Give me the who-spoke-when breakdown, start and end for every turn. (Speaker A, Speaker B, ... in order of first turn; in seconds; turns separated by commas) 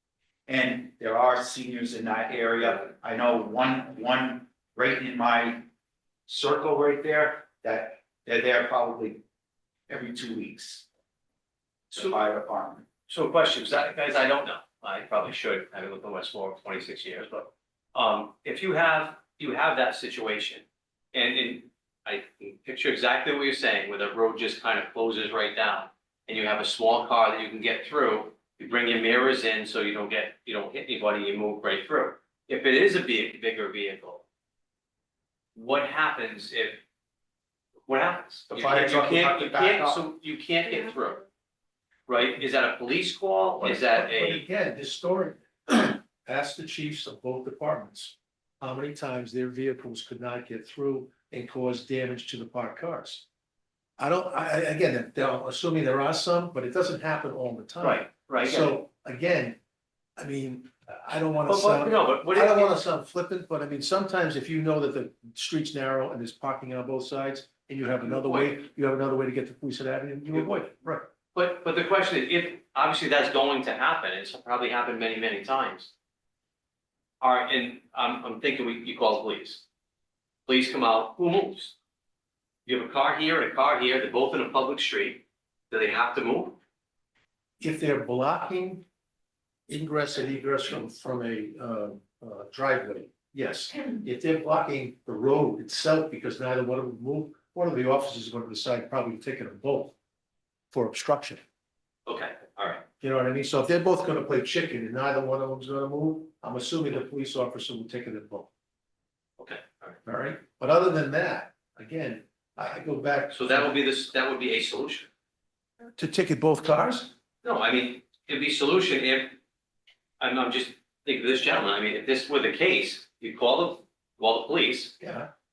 Speaker A: 0.5-5.7, Speaker A: 6.3-9.2, Speaker A: 9.9-10.8, Speaker A: 11.9-12.8, Speaker B: 13.1-34.2, Speaker B: 35.5-36.8, Speaker B: 37.9-41.2, Speaker C: 38.5-40.0, Speaker B: 42.1-44.4, Speaker C: 43.6-53.2, Speaker C: 54.0-59.6, Speaker B: 57.8-58.8, Speaker C: 60.2-71.1, Speaker B: 61.5-62.8, Speaker B: 68.0-68.5, Speaker B: 71.3-75.9, Speaker B: 77.2-79.6, Speaker B: 80.5-81.7, Speaker B: 82.7-86.6, Speaker C: 87.6-88.8, Speaker C: 89.7-99.9, Speaker C: 100.7-101.4, Speaker B: 102.0-102.8, Speaker C: 103.0-108.5, Speaker B: 109.4-110.0, Speaker C: 110.0-113.8, Speaker B: 113.3-115.1, Speaker C: 116.0-117.1, Speaker B: 117.4-119.4, Speaker B: 120.2-125.0, Speaker C: 125.0-125.3